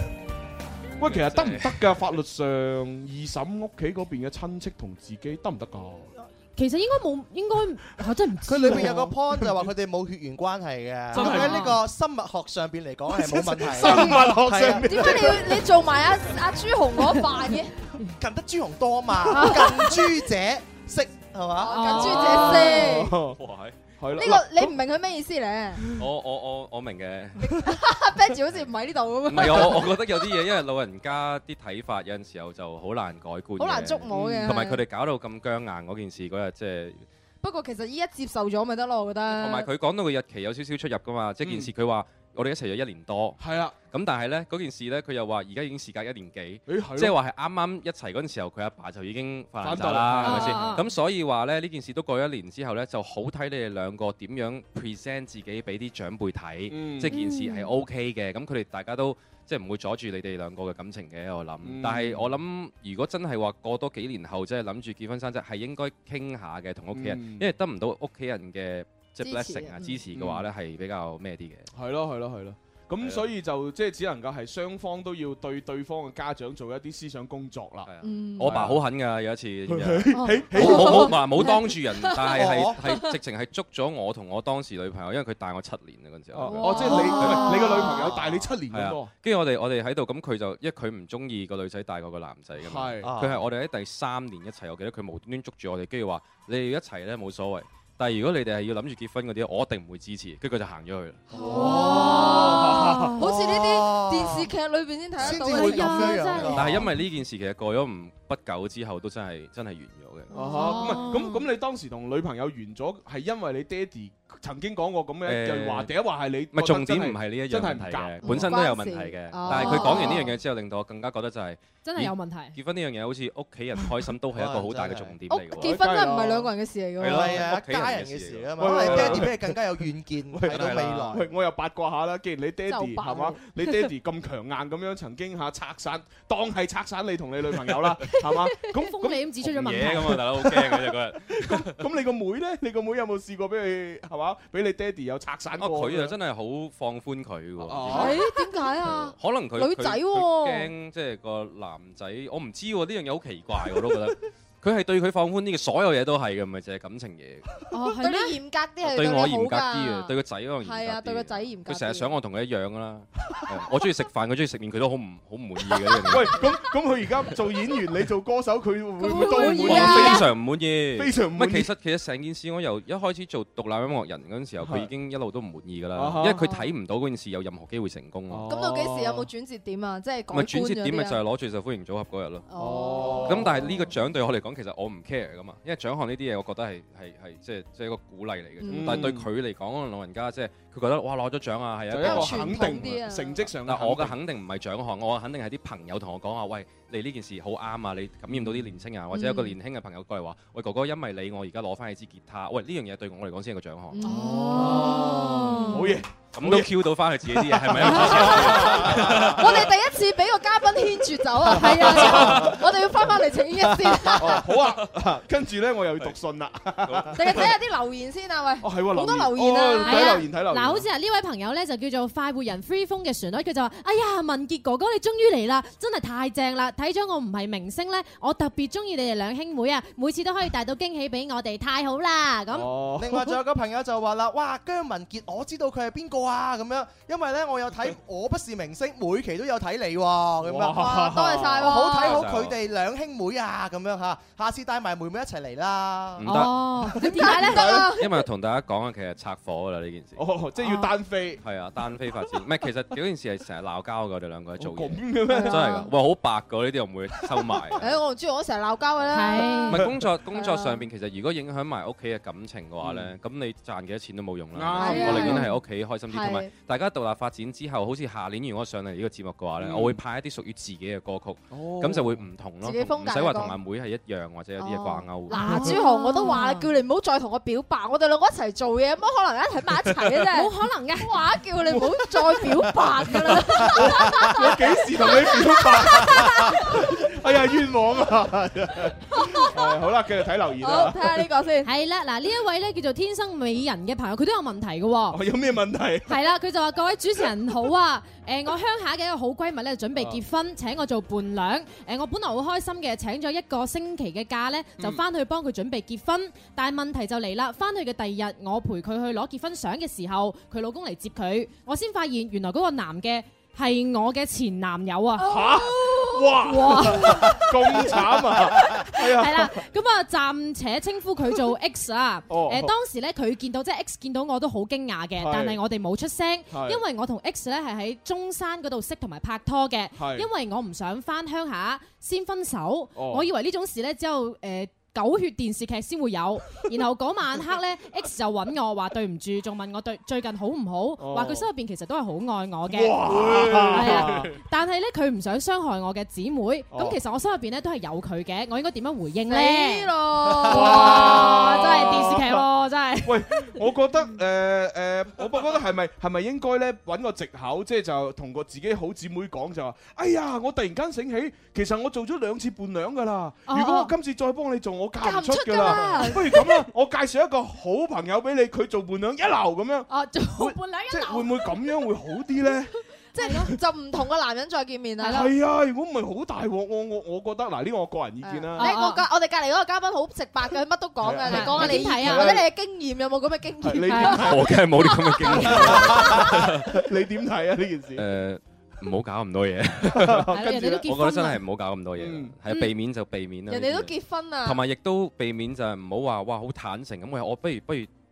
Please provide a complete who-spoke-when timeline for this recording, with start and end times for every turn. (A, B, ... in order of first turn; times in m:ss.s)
0:01.0-0:06.1 A
0:01.0-0:01.8 B
0:06.6-0:09.0 C
0:08.4-0:15.3 D
0:08.6-0:09.7 A
0:11.1-0:11.6 A
0:11.1-0:11.8 C
0:13.1-0:15.6 A
0:13.8-0:14.2 E
0:14.8-0:17.8 E
0:18.2-0:21.7 D
0:19.3-0:20.0 C
0:21.6-0:23.1 E
0:21.7-0:22.8 C
0:22.0-0:23.4 A
0:23.2-0:23.9 B
0:24.0-0:24.7 A
0:24.2-0:25.8 E
0:25.8-0:26.1 A
0:26.0-0:27.4 B
0:27.4-0:30.0 E
0:29.2-0:37.0 B
0:29.4-0:29.8 A
0:33.6-0:34.8 E
0:34.1-0:34.6 A
0:37.4-0:39.7 E
0:39.3-1:11.7 B
0:41.4-0:41.7 A
0:43.4-0:43.7 A
0:46.7-0:47.2 A
0:49.6-0:50.8 A
0:50.2-0:50.8 C
0:56.7-0:57.2 A
0:57.1-0:57.7 C
1:01.6-1:02.3 A
1:06.9-1:07.5 A
1:09.2-1:10.0 E
1:10.1-1:10.5 A
1:11.7-1:17.9 A
1:13.0-1:13.2 B
1:17.8-1:26.7 B
1:18.0-1:18.7 E
1:18.4-1:18.8 A
1:19.7-1:21.3 A
1:20.1-1:20.4 C
1:20.5-1:23.1 E
1:22.2-1:22.8 D
1:26.3-1:29.1 A
1:26.5-1:27.6 E
1:26.6-1:28.0 C
1:27.2-1:27.5 B
1:28.7-1:41.2 B
1:32.6-1:33.1 A
1:33.0-1:33.4 D
1:41.3-1:44.5 D
1:41.3-1:46.5 E
1:41.6-1:42.7 C
1:42.6-1:43.1 A
1:45.2-1:46.9 D
1:45.5-1:46.8 C
1:46.4-1:50.3 B
1:50.3-1:51.1 E
1:50.3-1:58.6 A
1:50.6-1:51.4 C
1:55.2-1:55.9 B
1:56.5-2:05.8 B
1:58.2-2:00.3 E
1:59.4-2:00.2 A
1:59.6-1:59.9 C
2:01.8-2:02.6 C
2:04.3-2:05.2 D
2:05.3-2:07.4 E
2:05.6-2:06.5 A
2:07.0-2:09.3 B
2:07.0-2:11.2 D
2:08.6-2:09.6 A
2:10.3-2:26.2 A
2:10.5-2:11.2 B
2:12.7-2:13.8 E
2:18.7-2:20.3 C
2:19.4-2:21.8 B
2:25.6-2:28.1 B
2:27.6-2:28.2 A
2:27.9-2:30.7 E
2:28.8-2:37.5 B
2:37.7-2:38.4 C
2:37.9-2:42.1 E
2:38.8-2:46.5 B
2:46.0-2:50.2 A
2:49.0-2:50.2 E
2:49.6-2:58.5 B
2:50.9-2:51.7 A
2:54.6-2:54.9 A
2:55.9-2:56.6 A
2:58.3-2:59.3 A
2:58.5-3:01.2 E
3:00.3-3:02.4 B
3:02.5-3:03.6 E
3:02.6-3:03.8 A
3:03.2-3:12.9 B
3:08.6-3:09.1 E
3:08.7-3:09.3 A
3:11.9-3:14.2 A
3:12.0-3:13.4 E
3:13.6-3:24.0 B
3:18.3-3:18.8 A
3:19.2-3:19.5 C
3:19.2-3:19.5 E
3:23.9-3:25.9 E
3:24.0-3:25.8 C
3:24.1-3:29.6 A
3:26.3-3:29.7 B
3:27.8-3:34.4 E
3:31.4-3:32.6 A
3:31.5-3:32.5 C
3:34.2-3:37.5 A
3:36.8-3:37.5 B
3:37.1-3:40.2 E
3:38.6-3:40.9 A
3:39.8-3:52.7 C
3:52.5-3:53.4 A
3:53.0-4:00.9 D
4:00.4-4:01.8 A
4:00.8-4:02.2 E
4:01.6-4:06.3 D
4:01.9-4:02.6 B
4:06.2-4:06.7 B
4:06.3-4:07.7 C
4:07.0-4:08.1 E
4:07.2-4:07.6 D
4:07.5-4:07.9 A
4:07.9-4:10.2 B
4:10.2-4:11.4 A
4:11.4-4:17.9 B
4:14.6-4:15.6 A
4:15.5-4:15.8 C
4:17.8-4:19.8 E
4:19.1-4:19.8 C
4:19.7-4:35.3 B
4:19.7-4:20.1 A
4:20.3-4:20.8 E
4:22.8-4:23.1 A
4:24.5-4:25.5 A
4:24.8-4:25.4 E
4:25.2-4:25.6 C
4:26.1-4:26.5 E
4:29.6-4:30.0 A
4:31.5-4:32.3 A
4:32.6-4:33.6 E
4:34.6-4:46.9 E
4:35.3-4:36.7 C
4:40.3-4:41.2 C
4:41.6-4:51.3 A
4:49.1-4:49.6 E
4:50.6-4:51.7 E
4:51.6-4:55.2 C
4:55.1-4:56.2 A
4:56.1-5:15.4 C
4:59.9-5:00.2 A
5:15.2-5:19.6 A
5:15.2-5:16.4 E
5:16.4-5:17.9 C
5:17.0-5:17.4 E
5:18.5-5:49.9 C
5:22.3-5:22.7 A
5:25.2-5:25.6 A
5:26.5-5:26.8 A
5:30.0-5:30.3 A
5:33.0-5:33.2 A
5:41.0-5:41.4 A
5:42.7-5:44.4 A
5:46.7-5:47.0 A
5:49.3-5:51.6 E
5:50.4-5:53.6 C
5:50.5-5:52.4 A
5:53.0-6:12.7 A
6:03.5-6:03.9 C
6:05.0-6:06.6 E
6:05.6-6:05.9 D
6:09.9-6:11.3 C
6:13.1-6:15.2 E
6:13.2-6:13.5 C
6:15.0-6:15.3 C
6:15.0-6:18.6 A
6:18.2-6:26.3 E
6:18.6-6:19.0 C
6:21.0-6:22.4 A
6:21.3-6:22.4 C
6:23.6-6:24.6 A
6:23.9-6:24.3 C
6:24.1-6:26.8 B
6:25.2-6:28.0 A
6:28.0-6:30.3 B
6:29.8-6:30.8 A
6:30.3-6:31.4 C
6:30.8-6:33.9 B
6:32.0-6:32.4 A
6:33.5-6:34.6 E
6:34.4-6:37.9 B